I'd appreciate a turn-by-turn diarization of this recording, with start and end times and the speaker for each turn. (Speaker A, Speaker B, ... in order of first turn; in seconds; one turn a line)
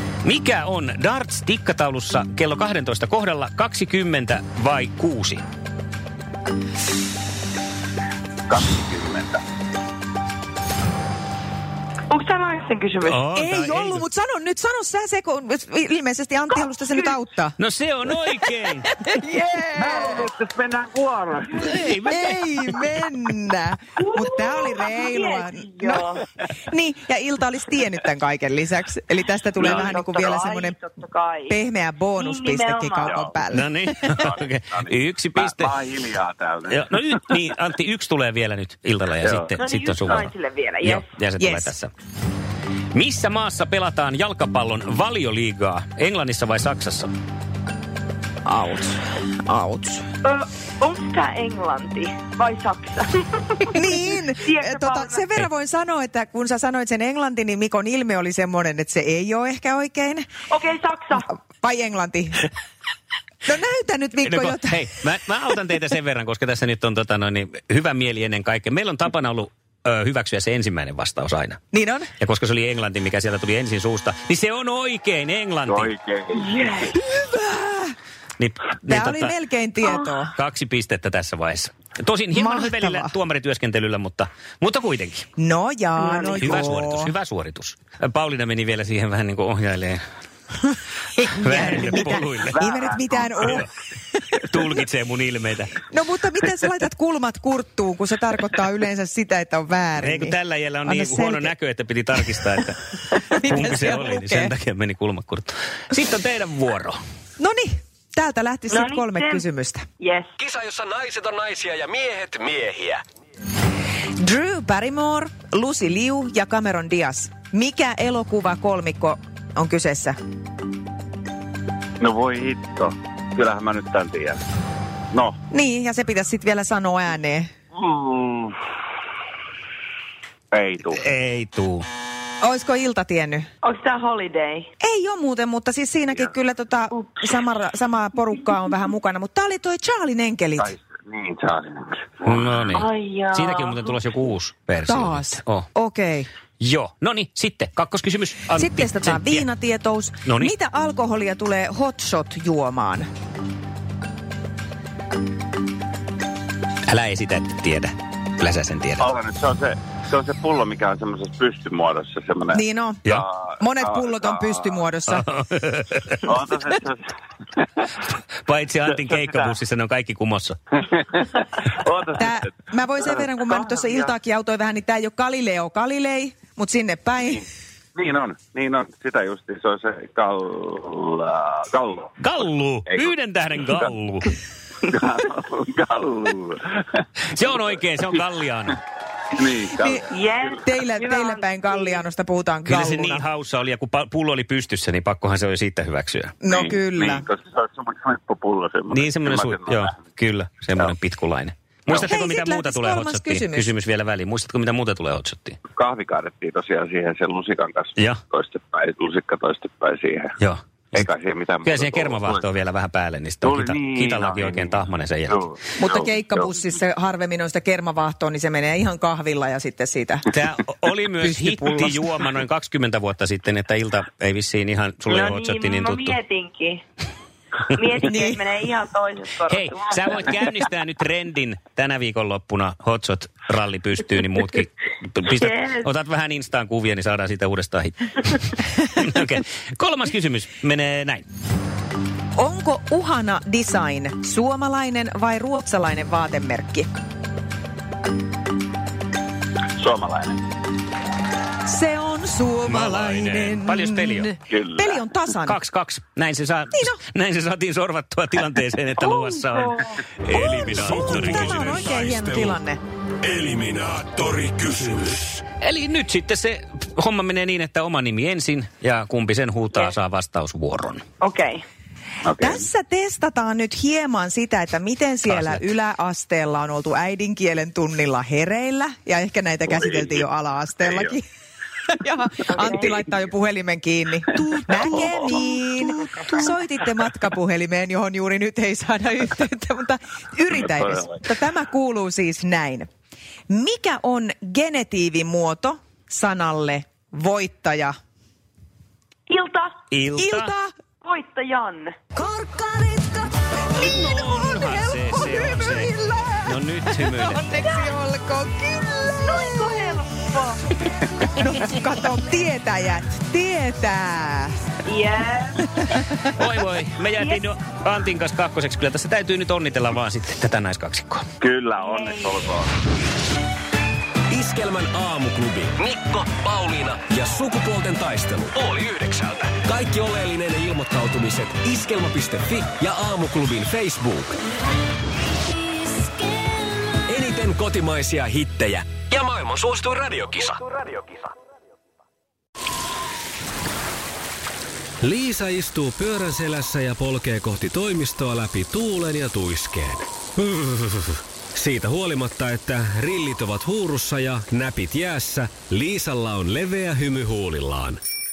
Speaker A: 0.2-5.4
Speaker B: 8.5-9.4
Speaker C: 12.1-13.2
Speaker A: 13.0-14.1
Speaker D: 13.3-17.6
Speaker A: 17.6-18.9
Speaker D: 18.8-20.3
Speaker B: 19.8-21.8
Speaker A: 21.5-22.9
Speaker D: 22.0-26.0
Speaker C: 24.0-26.2
Speaker D: 26.7-30.8
Speaker C: 29.6-31.6
Speaker B: 29.6-30.0
Speaker D: 31.5-34.3
Speaker C: 32.2-33.2
Speaker B: 33.1-33.3
Speaker A: 33.5-35.8
Speaker B: 34.1-37.4
Speaker A: 36.7-40.3
Speaker B: 39.2-39.5
Speaker C: 39.6-41.1
Speaker A: 40.8-41.9
Speaker D: 41.4-41.7
Speaker A: 42.9-47.1
Speaker D: 48.5-50.0
Speaker C: 50.2-53.8
Speaker D: 53.7-60.2
Speaker C: 54.4-55.2
Speaker C: 60.5-61.3
Speaker D: 61.3-62.5
Speaker D: 63.5-64.8
Speaker A: 64.2-71.6
Speaker D: 71.7-72.1
Speaker A: 72.2-75.9
Speaker B: 75.7-76.5
Speaker C: 76.3-77.0
Speaker D: 77.0-77.9
Speaker A: 78.4-79.3
Speaker D: 78.8-80.3
Speaker C: 79.8-80.1
Speaker A: 80.3-85.3
Speaker D: 82.3-83.2
Speaker D: 85.4-87.1
Speaker C: 86.0-86.6
Speaker A: 86.4-90.0
Speaker A: 91.2-92.6
Speaker D: 91.2-93.7
Speaker B: 92.5-93.6
Speaker A: 93.4-93.7
Speaker A: 94.5-95.8
Speaker D: 95.9-101.5
Speaker A: 100.0-107.0
Speaker D: 103.3-104.5
Speaker D: 107.4-109.8
Speaker C: 108.7-109.5
Speaker C: 110.0-110.3
Speaker E: 110.4-113.0
Speaker D: 114.2-120.2
Speaker B: 122.0-124.4
Speaker D: 125.5-127.5
Speaker B: 127.7-128.5
Speaker B: 130.5-131.1
Speaker A: 130.9-131.8
Speaker D: 132.4-133.5
Speaker C: 133.6-134.7
Speaker D: 134.8-140.7
Speaker B: 140.6-142.8
Speaker A: 142.2-145.7
Speaker C: 142.7-144.0
Speaker D: 144.9-146.3
Speaker A: 146.6-149.5
Speaker D: 148.5-153.1
Speaker A: 150.2-150.5
Speaker A: 156.9-159.1
Speaker B: 159.0-164.9
Speaker D: 162.5-163.1
Speaker D: 163.6-165.3
Speaker A: 165.1-166.2
Speaker B: 166.2-167.8
Speaker A: 168.4-170.6
Speaker B: 168.8-169.5
Speaker B: 170.9-172.4
Speaker D: 172.2-177.4
Speaker B: 173.1-174.1
Speaker B: 177.9-182.2
Speaker A: 182.2-184.3
Speaker B: 182.8-183.9
Speaker B: 184.8-187.0
Speaker A: 187.3-188.8
Speaker B: 189.3-190.1
Speaker C: 190.1-192.0
Speaker D: 190.6-193.3
Speaker A: 192.7-196.3
Speaker D: 196.4-197.2
Speaker B: 196.5-200.0
Speaker A: 198.9-205.6
Speaker D: 202.0-203.7
Speaker B: 205.7-210.4
Speaker A: 210.4-211.0
Speaker B: 210.9-212.4
Speaker A: 211.6-215.4
Speaker B: 213.4-216.5
Speaker D: 215.8-220.3
Speaker A: 220.3-226.2
Speaker D: 221.2-222.2
Speaker C: 225.1-226.8
Speaker C: 227.7-230.3
Speaker D: 228.0-228.4
Speaker A: 229.5-241.2
Speaker C: 235.3-235.9
Speaker D: 242.3-246.9
Speaker B: 249.8-250.4
Speaker D: 251.7-255.6
Speaker A: 252.7-254.3
Speaker B: 254.5-255.1
Speaker A: 255.4-261.7
Speaker C: 259.3-259.9
Speaker E: 260.3-262.5
Speaker D: 260.3-262.8
Speaker E: 263.2-265.4
Speaker A: 265.6-271.0
Speaker C: 271.2-271.6
Speaker B: 272.2-272.6
Speaker D: 272.4-281.2
Speaker A: 275.3-275.6
Speaker B: 279.8-280.2
Speaker B: 280.8-281.1
Speaker D: 281.9-292.9
Speaker C: 282.5-283.0
Speaker B: 284.7-285.5
Speaker B: 290.6-291.2
Speaker D: 293.5-297.9
Speaker C: 299.3-299.8
Speaker A: 299.9-300.5
Speaker D: 300.2-300.7
Speaker C: 301.0-301.9
Speaker D: 302.2-303.2
Speaker A: 303.7-305.9
Speaker D: 303.8-310.0
Speaker A: 306.4-307.6
Speaker C: 307.6-307.9
Speaker C: 309.2-310.6
Speaker D: 311.4-314.6
Speaker C: 314.9-315.6
Speaker D: 315.8-316.3
Speaker A: 316.3-321.2
Speaker C: 317.2-317.4
Speaker B: 321.4-322.8
Speaker C: 321.8-322.4
Speaker E: 324.3-334.4
Speaker E: 335.9-336.2
Speaker E: 336.9-341.3
Speaker E: 345.0-358.0